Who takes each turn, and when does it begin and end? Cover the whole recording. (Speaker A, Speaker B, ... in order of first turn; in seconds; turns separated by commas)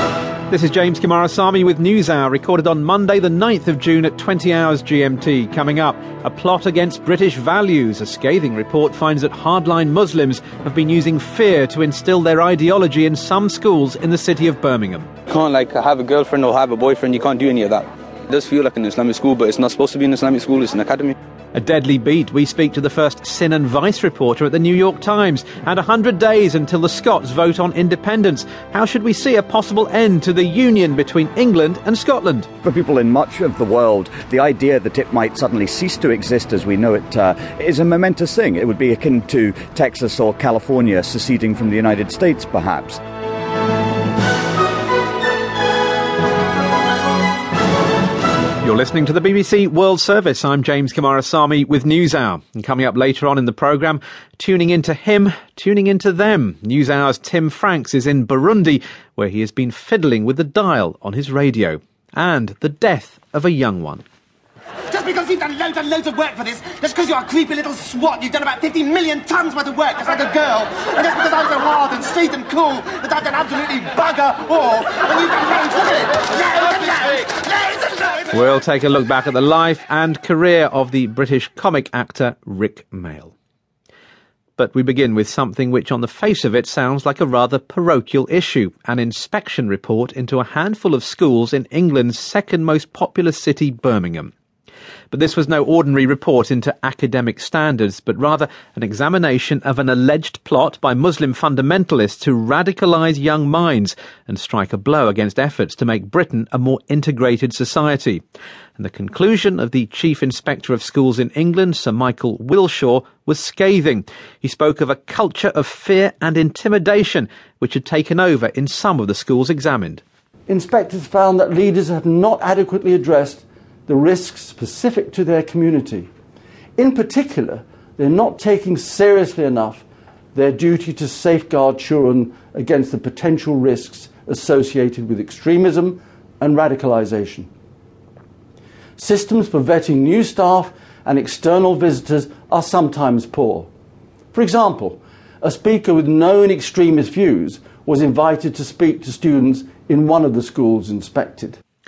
Speaker A: 0.5-15.1, Speaker B: 15.3-21.1, Speaker A: 21.6-32.5, Speaker C: 32.6-43.0, Speaker A: 48.6-64.0, Speaker D: 64.9-78.3, Speaker A: 78.3-83.3, Speaker A: 84.6-94.3, Speaker A: 95.1-108.2, Speaker A: 108.8-120.0, Speaker E: 120.5-126.1, Speaker E: 126.8-137.5, Speaker E: 139.0-143.7, Speaker E: 144.3-151.6